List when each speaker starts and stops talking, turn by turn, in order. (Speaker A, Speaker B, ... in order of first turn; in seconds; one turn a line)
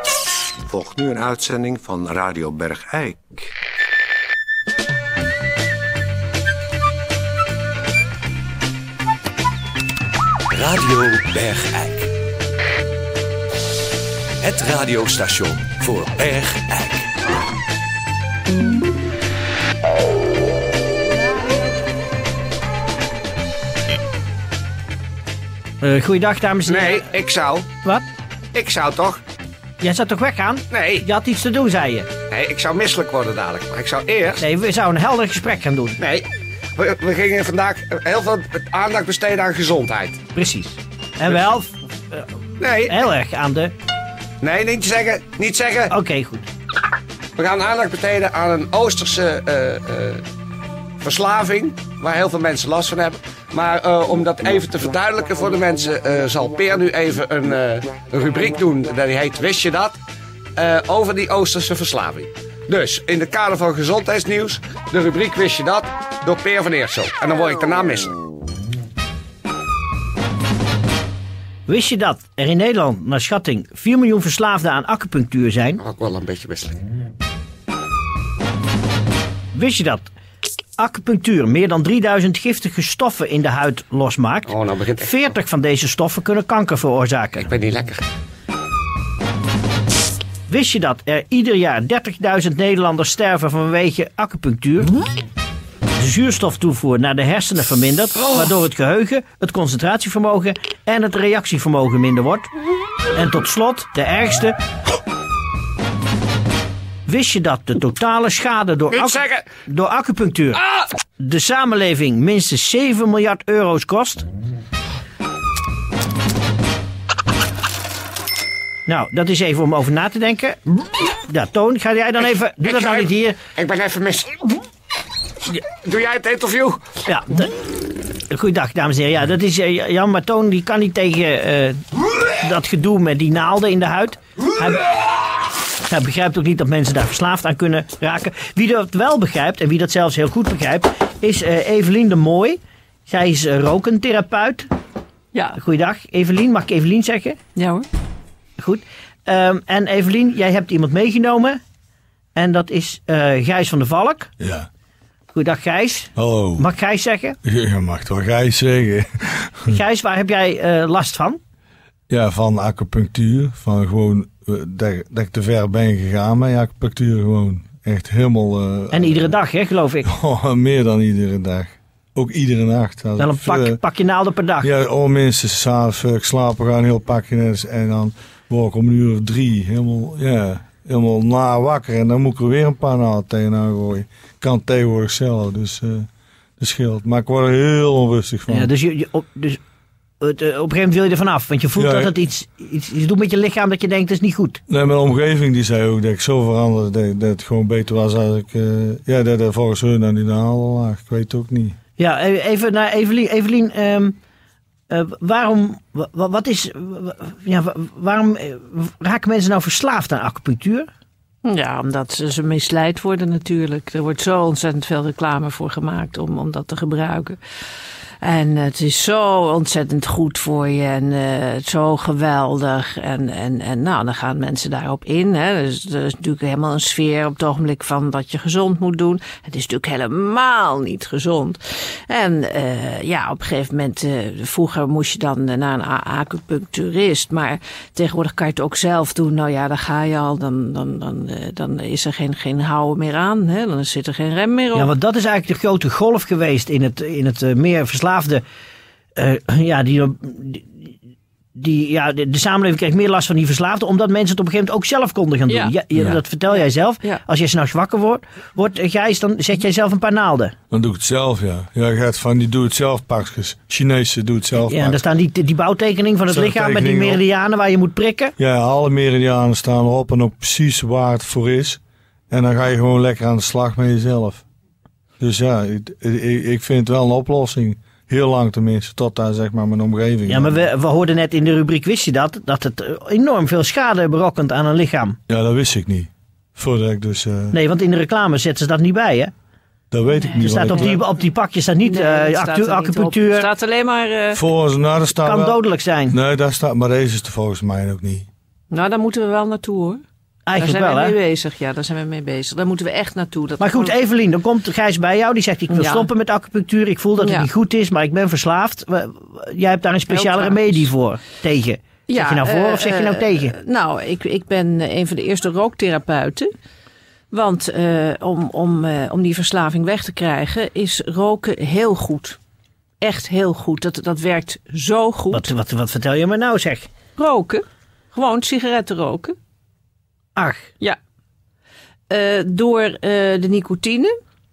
Speaker A: 0.7-3.5
Speaker B: 10.5-12.1
Speaker B: 14.4-17.0
Speaker C: 14.8-15.3
Speaker D: 25.8-27.1
Speaker C: 26.6-27.7
Speaker C: 28.5-29.2
Speaker D: 29.8-32.1
Speaker C: 30.7-31.1
Speaker C: 32.3-34.4
Speaker D: 34.4-36.0
Speaker C: 36.0-40.2
Speaker D: 40.3-42.2
Speaker C: 42.6-43.1
Speaker D: 42.8-43.7
Speaker C: 44.4-45.9
Speaker D: 45.9-46.5
Speaker C: 47.4-50.2
Speaker C: 51.0-60.0
Speaker C: 60.5-68.1
Speaker D: 71.7-75.8
Speaker C: 75.8-76.8
Speaker D: 79.5-80.1
Speaker D: 80.8-87.5
Speaker C: 84.5-85.3
Speaker C: 87.3-88.0
Speaker D: 90.5-94.9
Speaker D: 96.0-102.5
Speaker D: 103.1-104.6
Speaker D: 107.1-110.6
Speaker C: 108.9-109.5
Speaker C: 110.6-110.9
Speaker D: 111.2-114.2
Speaker D: 118.8-123.4
Speaker C: 122.6-124.6
Speaker C: 125.5-126.8
Speaker D: 127.0-127.5
Speaker D: 128.3-131.8
Speaker D: 132.4-135.0
Speaker D: 135.8-144.7
Speaker E: 145.3-145.6
Speaker D: 145.6-147.4
Speaker E: 147.5-147.9
Speaker D: 148.6-151.6
Speaker D: 152.3-154.3
Speaker F: 154.4-154.7
Speaker D: 155.3-157.4
Speaker F: 156.1-156.7
Speaker F: 157.4-159.8
Speaker D: 159.7-161.4
Speaker F: 162.1-169.3
Speaker D: 168.9-170.1
Speaker F: 170.0-173.8
Speaker D: 173.2-174.7
Speaker F: 174.6-186.1
Speaker F: 186.6-188.7
Speaker D: 188.5-189.6
Speaker D: 190.2-194.6
Speaker F: 191.8-192.1
Speaker F: 194.7-201.8
Speaker D: 202.0-204.2
Speaker D: 204.9-210.9
Speaker E: 211.4-217.4
Speaker E: 218.2-244.9
Speaker D: 244.7-248.4
Speaker D: 249.2-250.9
Speaker D: 251.5-260.5
Speaker E: 255.5-255.7
Speaker E: 256.5-257.2
Speaker F: 260.7-265.0
Speaker D: 264.7-268.3
Speaker F: 266.3-267.2
Speaker F: 268.4-274.4
Speaker F: 275.2-280.7
Speaker D: 280.3-285.2
Speaker F: 285.3-287.6
Speaker D: 287.5-289.3
Speaker F: 289.9-291.0
Speaker E: 290.1-290.9
Speaker D: 290.4-293.5
Speaker E: 291.8-294.4
Speaker F: 294.3-298.3
Speaker D: 295.1-296.1
Speaker E: 298.7-300.0
Speaker D: 300.4-301.1
Speaker E: 300.6-303.9
Speaker D: 303.6-313.5
Speaker E: 305.7-306.1
Speaker E: 307.2-307.5
Speaker E: 310.1-310.9
Speaker E: 312.1-316.5
Speaker E: 317.3-322.4
Speaker E: 323.0-325.5
Speaker D: 325.3-326.9
Speaker E: 327.1-329.3
Speaker D: 330.4-330.7
Speaker E: 332.1-334.1